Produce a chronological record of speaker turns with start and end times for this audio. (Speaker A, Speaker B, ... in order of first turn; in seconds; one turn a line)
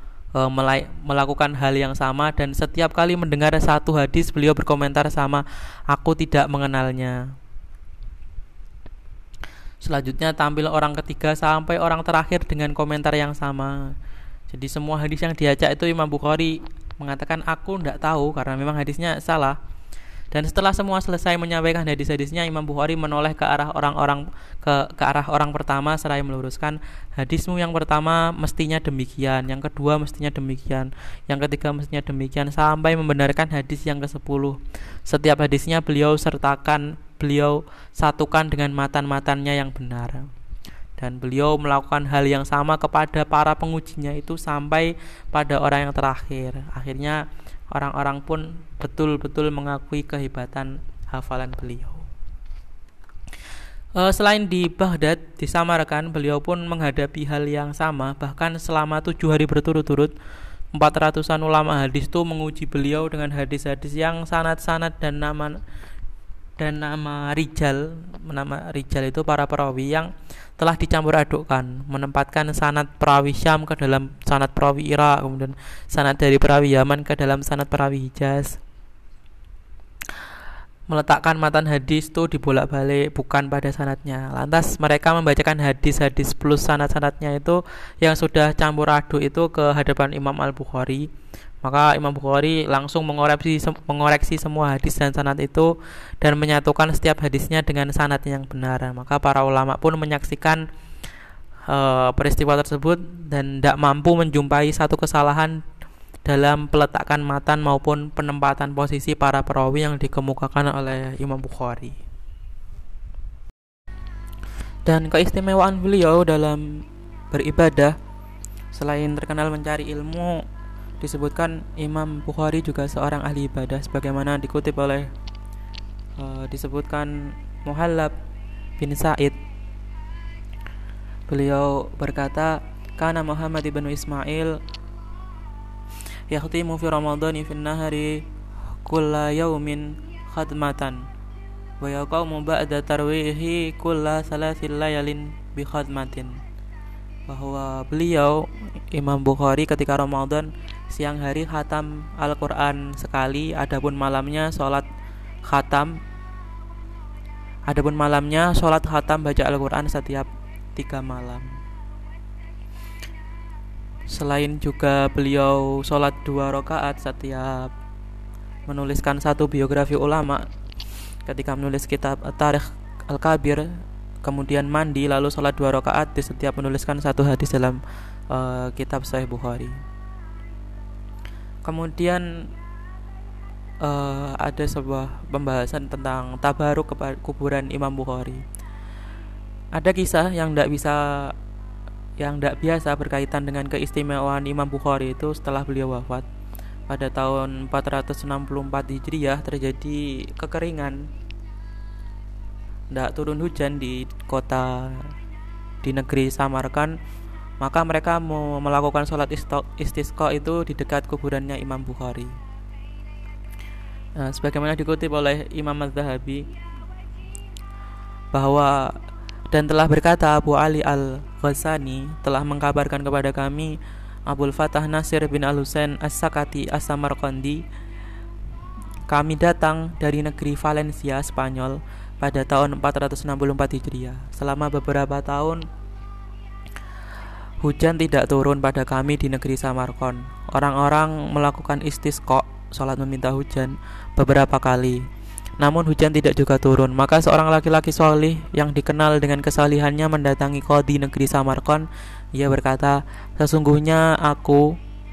Speaker A: 0.3-7.2
Speaker A: 9.8-13.9
Speaker A: 14.5-19.6
Speaker A: 20.3-40.3
Speaker A: 41.0-52.1
Speaker A: 53.9-60.1
Speaker A: 60.7-65.6
Speaker A: 66.6-78.6
Speaker A: 80.9-91.1
Speaker A: 91.6-100.6
Speaker A: 101.7-105.6
Speaker A: 106.2-112.0
Speaker A: 114.8-118.0
Speaker A: 118.7-120.4
Speaker A: 121.0-125.1
Speaker A: 126.2-128.1
Speaker A: 128.8-129.4
Speaker A: 131.3-134.6
Speaker A: 136.3-138.2
Speaker A: 138.8-141.1
Speaker A: 141.8-146.4
Speaker A: 147.3-154.8
Speaker A: 155.4-156.0
Speaker A: 157.7-161.6
Speaker A: 164.1-167.7
Speaker A: 168.7-170.4
Speaker A: 171.2-173.7
Speaker A: 174.2-179.8
Speaker A: 181.6-182.2
Speaker A: 183.8-188.4
Speaker A: 189.7-191.3
Speaker A: 192.2-196.2
Speaker A: 196.9-201.1
Speaker A: 202.9-205.1
Speaker A: 205.8-206.9
Speaker A: 207.6-212.3
Speaker A: 214.2-216.4
Speaker A: 218.3-219.0
Speaker A: 219.5-227.6
Speaker A: 229.1-235.6
Speaker A: 237.6-245.1
Speaker A: 245.6-254.7